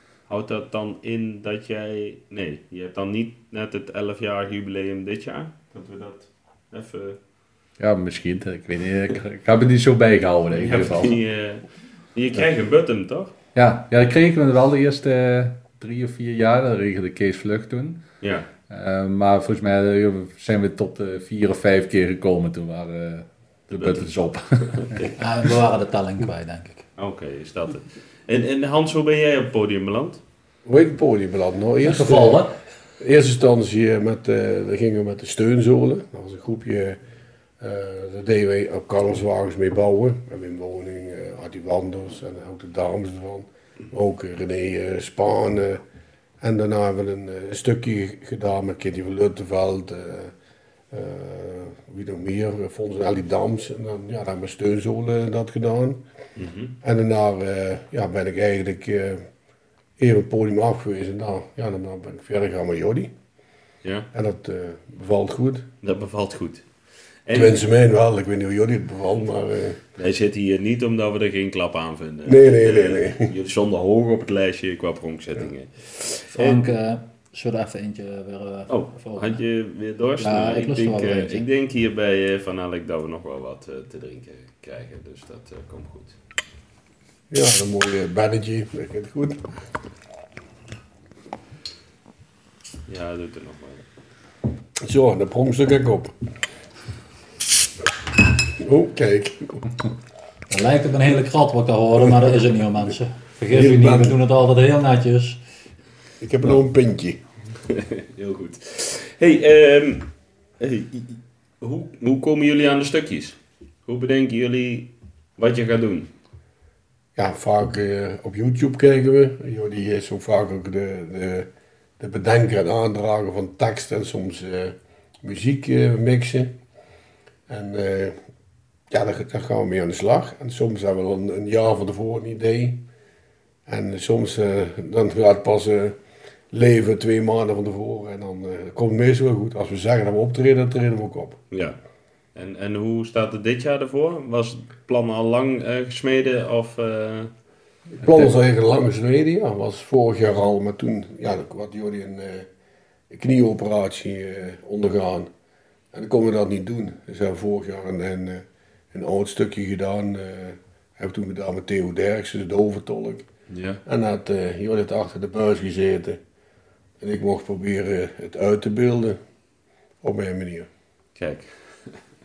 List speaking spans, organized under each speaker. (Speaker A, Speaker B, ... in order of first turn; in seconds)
Speaker A: 0.3-7.2, 10.5-13.3, 18.2-18.5, 23.7-24.1, 24.6-25.1, 27.0-30.2, 56.4-56.8, 65.8-66.7, 67.2-67.6, 70.0-76.7, 78.7-86.2, 92.9-93.8, 107.7-116.1, 141.5-141.8, 142.3-147.3, 163.5-163.8, 171.2-172.0
Speaker B: 7.8-11.2, 13.5-18.0, 18.7-25.0
Speaker C: 25.2-26.8, 31.8-32.5, 76.3-79.4, 80.2-81.4, 100.5-105.4
Speaker D: 30.6-32.5, 33.0-37.0, 37.6-45.8, 46.4-50.3, 50.9-56.0, 56.8-59.2, 60.0-63.1, 64.1-65.7, 67.3-69.8, 72.2-73.3, 87.3-89.4, 94.8-96.1, 98.6-99.8, 102.0-102.9, 103.5-104.2, 106.2-107.2, 117.2-121.5, 122.0-126.5, 127.5-128.2, 128.9-132.8, 133.7-135.9, 136.5-141.4, 147.9-152.5, 153.1-155.3, 155.9-163.3, 163.8-166.2, 167.0-169.2, 170.0-170.7